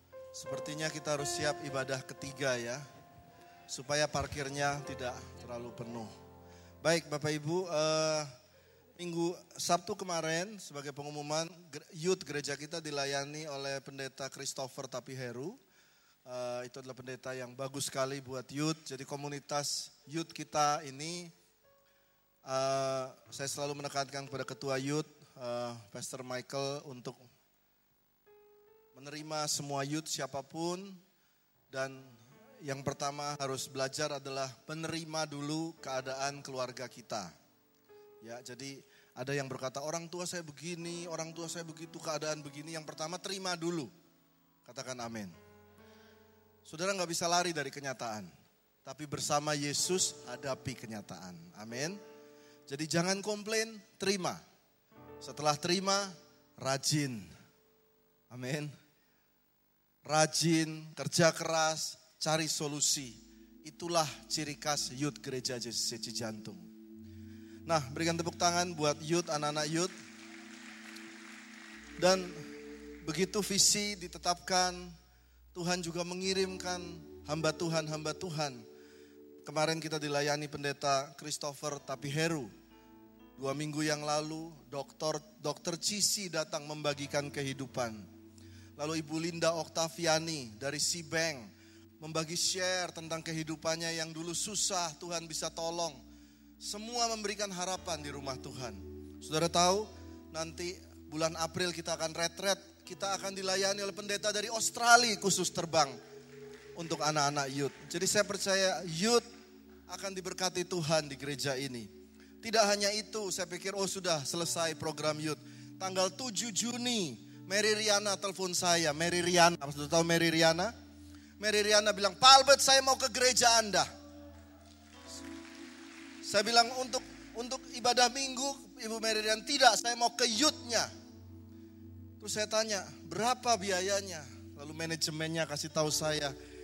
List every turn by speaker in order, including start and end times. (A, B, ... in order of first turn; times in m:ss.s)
0:00.3-0:02.8 A
0:03.7-0:06.1 A
0:06.8-0:08.3 A
0:09.0-0:15.6 A
0:16.3-0:21.3 A
0:22.5-0:27.2 A
0:29.0-0:31.0 A
0:31.7-0:37.3 A
0:38.2-0:43.9 A
0:44.6-0:45.3 A
0:46.7-0:48.3 A
0:48.8-0:52.0 A
0:52.7-0:54.4 A
0:55.2-0:57.3 A
0:58.3-0:58.7 A
1:00.0-1:06.7 A
1:07.7-1:09.9 A
1:12.0-1:12.4 A
1:13.0-1:14.9 A
1:15.5-1:18.6 A
1:19.4-1:22.5 A
1:23.4-1:28.0 A
1:28.8-1:31.5 A
1:32.0-1:36.0 A
1:36.6-1:46.0 A
1:46.8-1:49.2 A
1:49.9-1:51.9 A
1:52.4-2:00.7 A
2:01.4-2:03.9 A
2:06.2-2:10.9 A
2:12.2-2:16.3 A